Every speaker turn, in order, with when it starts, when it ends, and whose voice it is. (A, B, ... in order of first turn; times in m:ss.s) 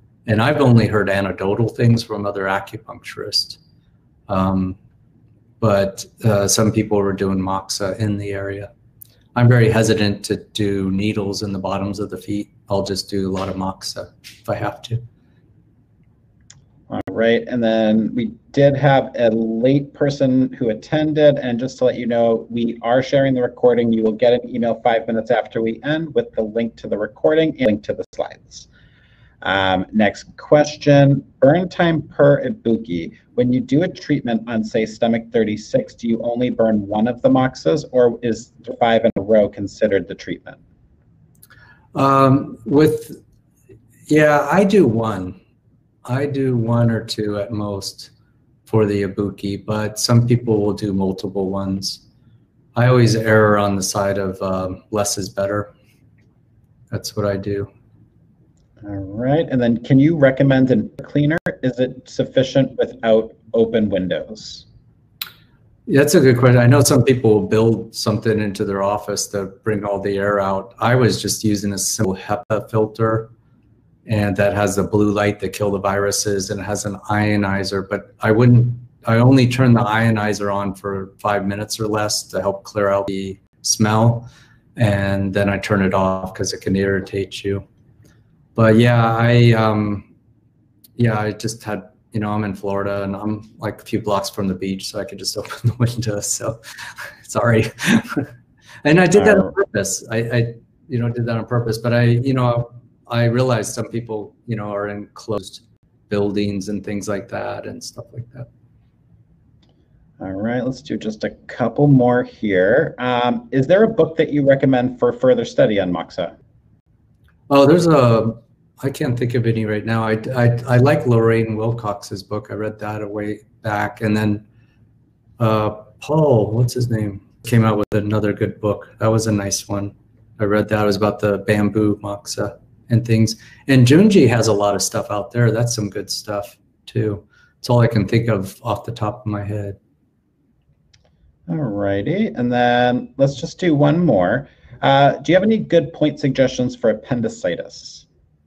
0:00.2-0:03.6 A
0:04.3-0:04.8 A
0:05.6-0:08.7 A
0:09.3-0:15.0 A
0:16.9-0:28.7 B
0:29.4-0:40.6 B
0:41.9-0:43.2 A
0:44.1-0:45.4 A
0:46.0-0:48.1 A
0:48.7-0:52.0 A
0:52.7-0:55.7 A
0:56.9-0:57.7 A
0:58.8-1:04.6 B
1:05.9-1:13.3 A
1:14.0-1:27.6 A
1:28.6-1:30.1 A
1:31.0-1:38.3 A
1:38.8-1:48.5 A
1:39.2-1:39.5 B
1:50.2-1:56.3 B
1:57.5-2:04.4 A
2:05.4-2:19.8 A
2:21.5-2:28.0 B